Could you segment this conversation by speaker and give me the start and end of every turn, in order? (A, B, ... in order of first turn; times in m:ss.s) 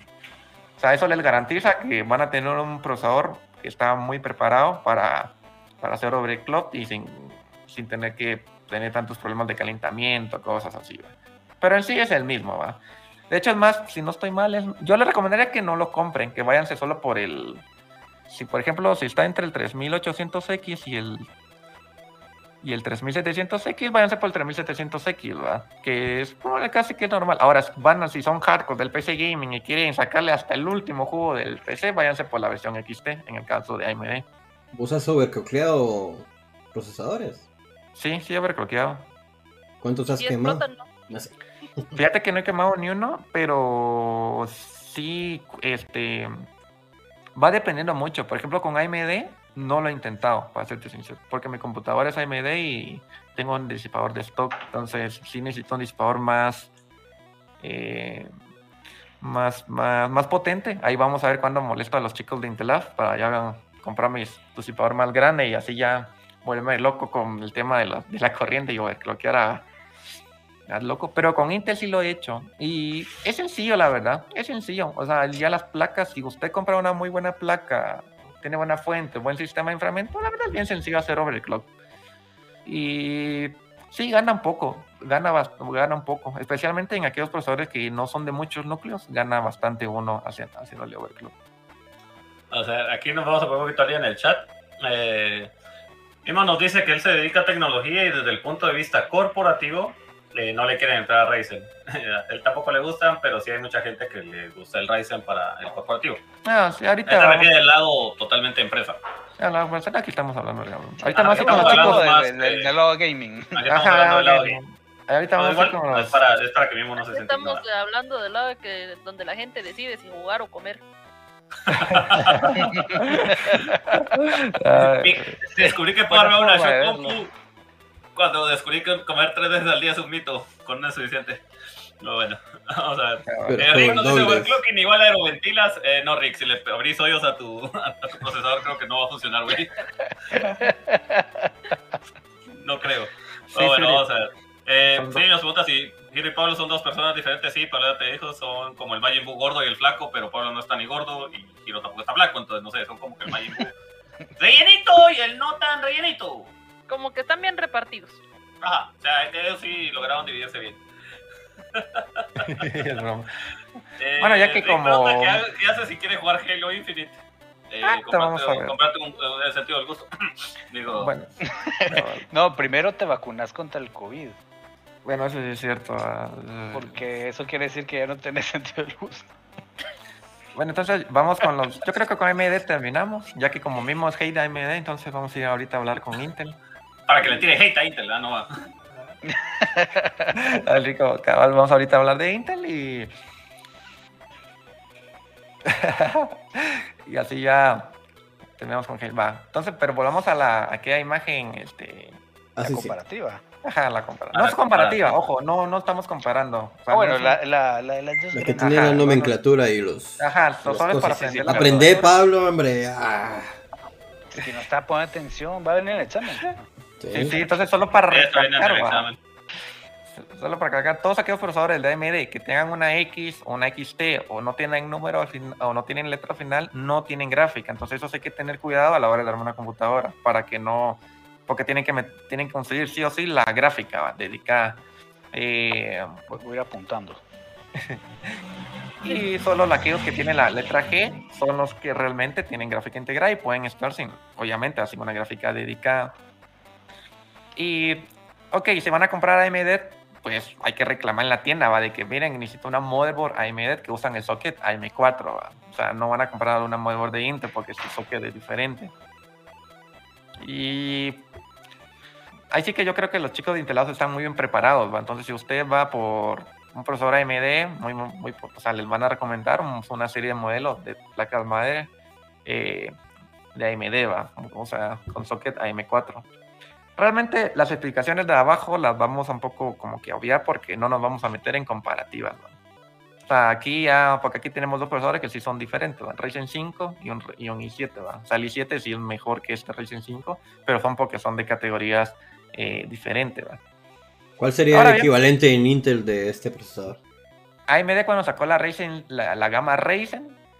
0:00.8-0:17.6 A
0:18.3-0:21.3 A
0:22.6-0:34.3 A
0:34.7-0:37.5 B
0:38.0-0:39.1 A
0:39.8-0:41.9 B
0:40.2-0:40.9 C
0:41.9-0:46.5 A
0:47.4-0:56.7 A
0:57.6-0:58.3 A
0:59.2-1:09.7 A
1:10.7-1:21.7 A
1:22.6-1:31.3 A
1:32.5-1:35.5 D
1:36.2-1:46.2 D
1:46.4-1:47.5 A
1:47.0-1:49.0 D
1:49.4-1:52.0 A
1:51.1-1:52.7 D
1:51.2-1:53.6 E
1:53.5-1:54.6 D
1:53.7-1:56.2 A
1:55.4-1:57.6 D
1:57.1-2:00.8 C
2:01.7-2:02.7 D
2:01.7-2:05.3 A
2:02.5-2:03.8 E
2:04.8-2:07.3 D
2:05.5-2:07.2 E
2:08.2-2:11.4 D
2:12.0-2:19.8 D
2:13.3-2:13.9 A
2:13.5-2:14.6 B
2:20.3-2:21.5 E
2:22.6-2:33.7 D
2:23.6-2:23.9 E
2:23.6-2:24.0 A
2:24.9-2:25.2 A
2:34.4-2:36.5 D
2:36.9-2:38.2 C
2:38.6-2:40.8 D
2:41.7-2:42.2 D
2:42.4-2:43.3 A
2:44.0-2:47.2 D
2:44.2-2:45.4 A
2:47.7-2:50.1 D
2:47.8-2:48.8 A
2:50.7-2:51.1 D
2:50.9-2:51.3 A
2:51.5-2:54.4 E
2:51.9-2:52.2 A
2:55.0-2:57.0 A
2:56.7-2:59.3 E
3:00.5-3:06.6 A
3:07.1-3:08.5 D
3:09.3-3:10.4 E
3:10.4-3:13.1 A
3:15.6-3:18.0 A
3:18.6-3:22.2 A
3:22.5-3:23.0 B
3:22.6-3:23.4 E
3:23.6-3:27.4 A
3:24.3-3:25.2 D
3:26.9-3:29.4 E
3:28.3-3:33.6 B
3:28.6-3:29.3 A
3:30.2-3:32.2 A
3:30.8-3:32.1 E
3:34.3-3:36.6 E
3:37.0-3:37.3 B
3:37.1-3:39.0 A
3:38.1-3:39.2 D
3:40.1-3:56.2 A
3:56.3-3:57.2 E
3:59.0-4:06.1 A
4:07.6-4:18.9 A
4:20.4-4:21.3 A
4:22.5-4:31.9 A
4:32.4-4:33.0 A
4:33.5-4:36.3 A
4:37.0-4:42.5 A
4:43.3-4:53.6 A
4:54.4-4:57.0 B
4:54.7-4:55.1 A
4:57.7-5:00.4 A